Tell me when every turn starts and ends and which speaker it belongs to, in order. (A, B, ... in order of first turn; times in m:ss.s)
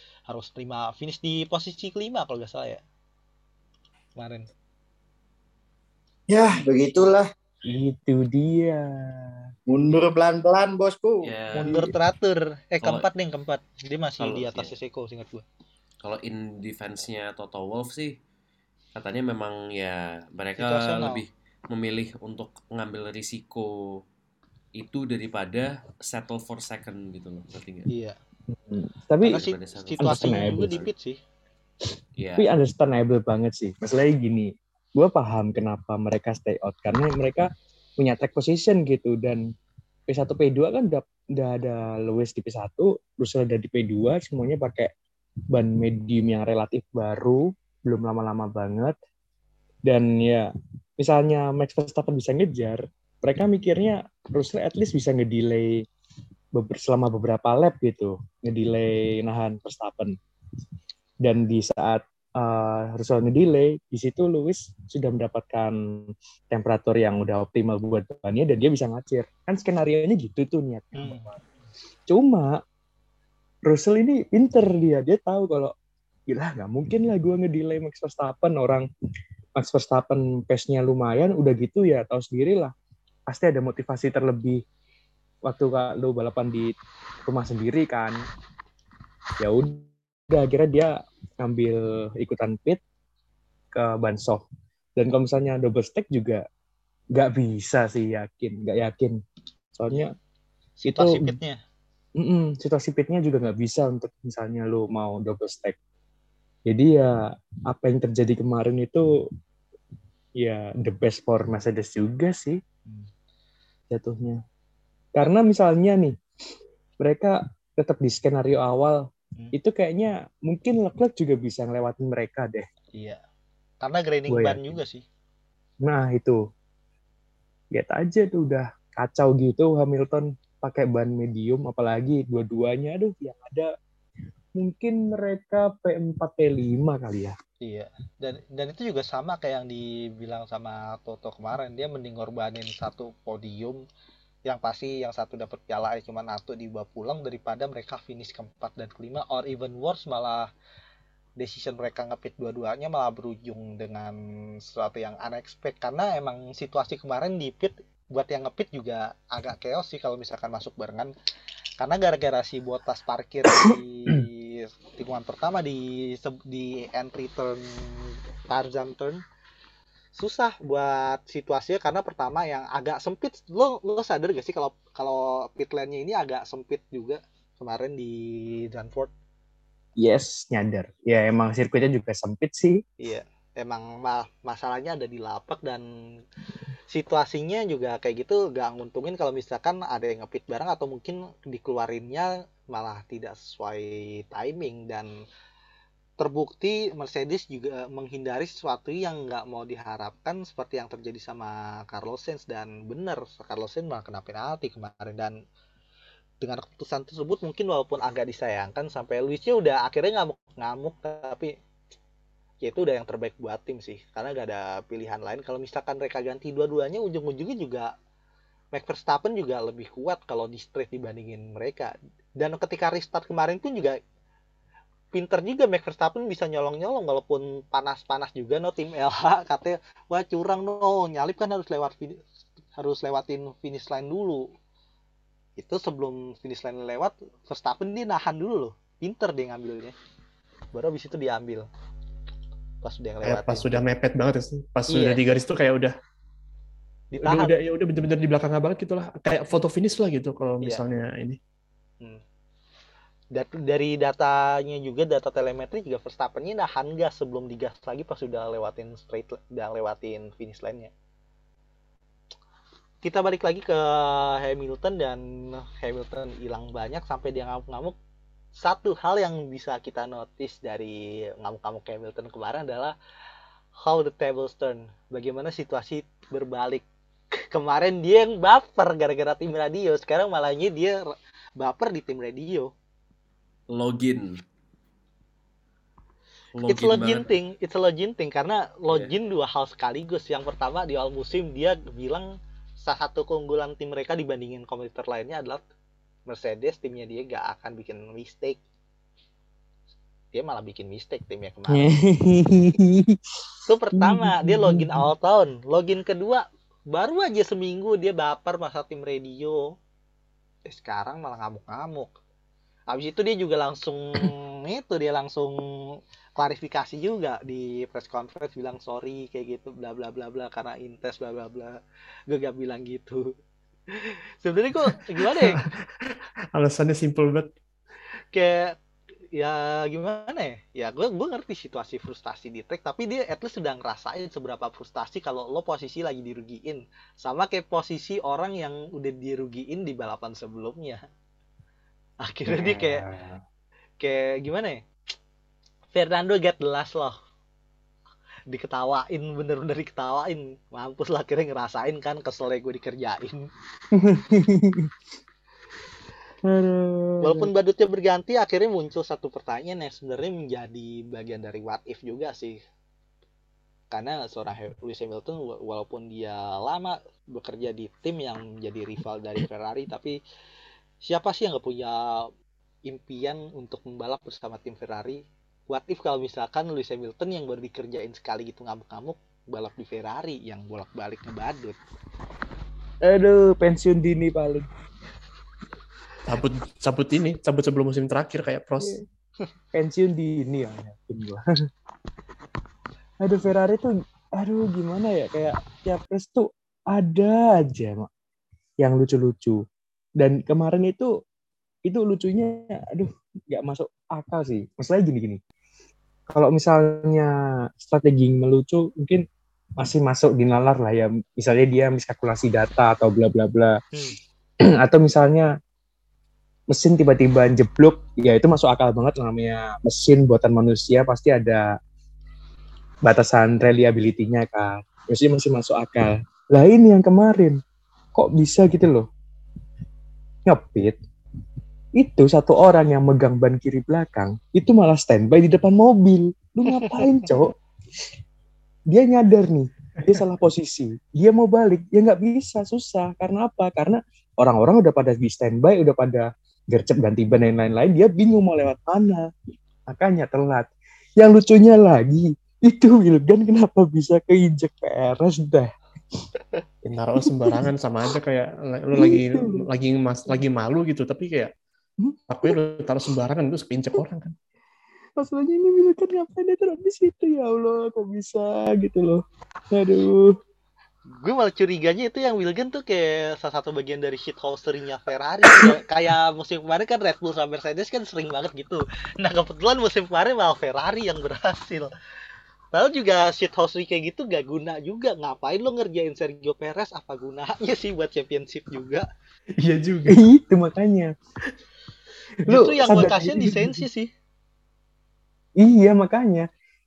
0:00.3-0:02.8 A
0:04.2-0:04.5 A
0:06.3-0:07.3 B
0:07.7-0:09.5 C
0:09.7-0:11.3 B
0:11.2-0:11.8 D
0:11.6-0:12.0 C
0:11.7-0:15.4 A
0:14.2-0:14.7 D
0:16.0-0:18.2 D
0:19.0-0:24.0 D
0:20.6-0:21.2 A
0:24.8-0:27.9 D
0:27.9-0:28.2 A
0:28.5-0:29.4 C
0:29.2-0:30.9 D
0:29.2-0:31.2 A
0:30.0-0:30.8 C
0:32.2-0:32.5 D
0:32.4-0:39.5 C
0:40.1-0:44.9 C
0:45.5-0:49.0 C
0:49.9-0:55.8 C
0:56.6-1:00.2 C
1:01.2-1:11.3 C
1:11.0-1:11.3 A
1:12.1-1:12.6 C
1:13.6-1:15.7 C
1:16.3-1:18.9 C
1:19.6-1:22.7 C
1:23.3-1:24.6 C
1:25.5-1:28.2 C
1:29.4-1:32.8 C
1:33.7-1:34.4 C
1:35.0-1:36.5 C
1:37.1-1:39.2 C
1:39.7-1:40.1 C
1:40.8-1:41.6 A
1:40.9-1:41.4 C
1:42.2-1:45.8 C
1:46.7-1:49.0 C
1:50.4-1:52.6 C
1:53.9-1:54.4 C
1:55.2-1:56.2 C
1:57.0-2:02.7 C
2:02.9-2:03.2 A
2:03.8-2:05.0 A
2:04.3-2:04.7 C
2:05.8-2:06.4 C
2:07.7-2:13.7 C
2:14.6-2:17.4 C
2:17.6-2:23.8 A
2:24.5-2:30.5 A
2:31.4-2:41.1 A
2:41.8-2:49.2 A
2:50.1-2:59.1 A
3:00.0-3:02.8 C
3:03.0-3:05.9 A
3:06.9-3:15.1 A
3:16.2-3:25.4 A
3:26.4-3:31.6 A
3:32.6-3:37.9 A
3:38.7-3:44.0 A
3:45.1-3:52.2 A
3:52.8-3:54.5 A
3:55.6-4:00.0 A
4:00.7-4:01.7 A
4:02.8-4:03.8 A
4:03.2-4:06.0 E
4:04.9-4:05.2 A
4:07.1-4:07.6 A
4:07.2-4:11.4 E
4:13.3-4:20.9 A
4:23.0-4:28.0 A
4:28.6-4:33.0 A
4:33.8-4:36.8 A
4:37.5-4:41.0 A
4:41.6-4:42.7 A
4:43.7-4:44.4 D
4:46.5-4:47.3 D
4:46.7-4:55.6 A
4:56.3-4:58.6 A
5:00.3-5:01.9 A
5:01.7-5:03.2 C
5:03.7-5:09.6 A
5:04.0-5:05.1 C
5:10.7-5:12.1 A
5:12.9-5:23.4 A
5:23.9-5:25.7 A
5:25.2-5:27.5 E
5:28.3-5:28.8 A
5:29.3-5:41.0 A
5:42.2-5:43.1 A
5:42.5-5:43.4 C
5:44.0-5:44.8 A
5:45.9-5:47.2 A
5:48.5-5:53.5 A
5:54.0-5:54.9 C
5:56.4-5:57.5 C
5:57.2-6:02.6 A
6:03.9-6:10.2 A
6:11.0-6:12.3 A
6:12.9-6:21.8 A
6:23.0-6:24.7 C
6:26.2-6:29.0 E
6:29.7-6:31.4 C
6:33.2-6:38.1 C
6:38.8-6:39.6 C
6:40.2-6:41.2 C
6:41.8-6:45.4 C
6:46.3-6:49.2 C
6:49.8-6:53.8 C
6:54.7-6:55.5 C
6:56.7-7:01.7 C
7:03.0-7:07.6 C
7:08.1-7:09.1 C
7:10.5-7:11.0 C
7:12.0-7:17.6 C
7:18.9-7:29.3 C
7:29.9-7:36.2 C
7:36.8-7:41.5 E
7:37.2-7:37.7 C
7:38.9-7:39.7 C
7:42.0-7:42.6 C
7:42.3-7:44.4 E
7:45.2-7:50.4 C
7:51.2-8:01.9 A
8:02.7-8:09.1 A
8:09.6-8:10.2 E
8:10.0-8:11.1 C
8:12.5-8:13.8 C
8:12.5-8:14.1 A
8:15.6-8:16.5 C